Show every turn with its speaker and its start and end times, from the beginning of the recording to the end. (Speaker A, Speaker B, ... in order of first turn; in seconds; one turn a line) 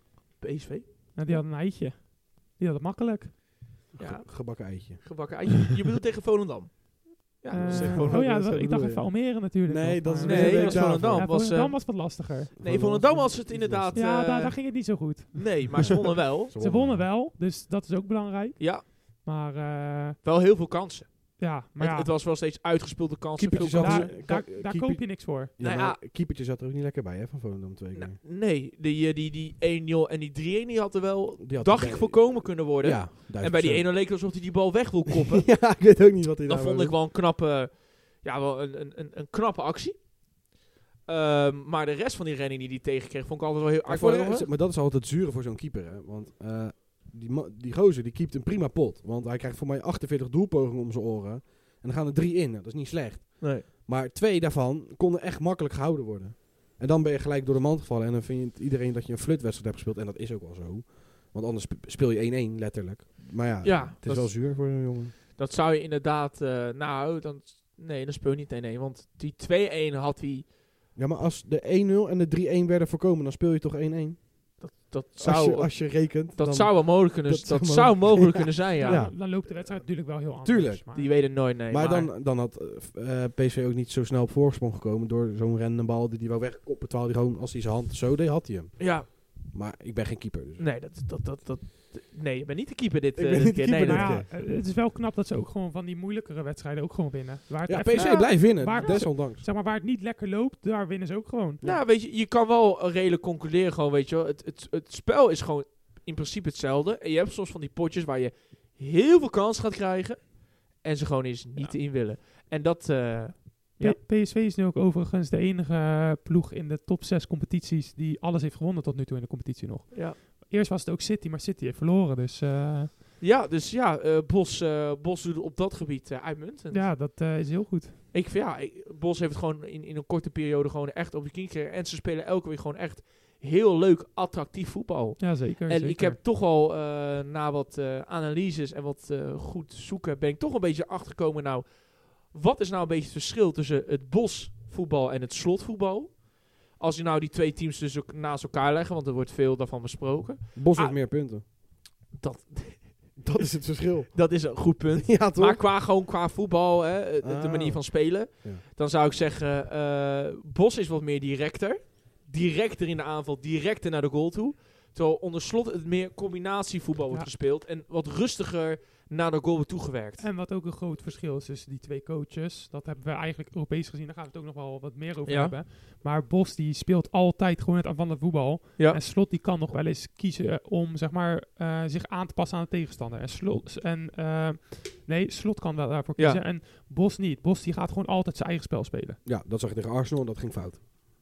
Speaker A: 0.4-1.4
Speaker B: 1.1-3.3
Speaker C: 4.0-5.3
Speaker A: 4.0-8.2
Speaker B: 7.5-12.7
Speaker C: 7.5-11.3
Speaker A: 10.2-16.5
Speaker C: 12.6-14.0
Speaker B: 13.6-20.2
Speaker C: 15.8-17.1
Speaker A: 18.6-18.9
Speaker A: 20.2-24.1
Speaker B: 21.4-22.1
Speaker C: 23.4-28.2
Speaker B: 23.8-25.5
Speaker A: 25.6-26.0
Speaker A: 27.9-35.6
Speaker C: 31.4-33.9
Speaker C: 35.4-37.0
Speaker A: 36.5-40.1
Speaker A: 41.1-44.5
Speaker C: 43.9-65.1
Speaker A: 53.4-53.7
Speaker A: 63.6-70.5
Speaker C: 71.0-79.5
Speaker A: 74.6-79.1
Speaker B: 78.8-81.2
Speaker C: 80.4-90.7
Speaker A: 80.9-82.1
Speaker A: 88.8-89.1
Speaker A: 90.6-94.2
Speaker C: 93.2-94.3
Speaker B: 93.8-101.6
Speaker C: 97.7-99.5
Speaker A: 97.8-99.0
Speaker C: 101.6-101.9
Speaker A: 101.6-114.0
Speaker B: 113.8-123.0
Speaker A: 119.9-120.2
Speaker A: 123.2-127.0
Speaker B: 126.7-128.0
Speaker A: 128.1-151.6
Speaker B: 135.2-136.2
Speaker C: 150.6-151.4
Speaker A: 152.1-153.3
Speaker C: 153.2-155.7
Speaker A: 154.1-170.2
Speaker C: 157.2-158.6
Speaker B: 170.2-189.2
Speaker A: 175.3-175.6
Speaker A: 186.2-186.4
Speaker C: 189.2-190.8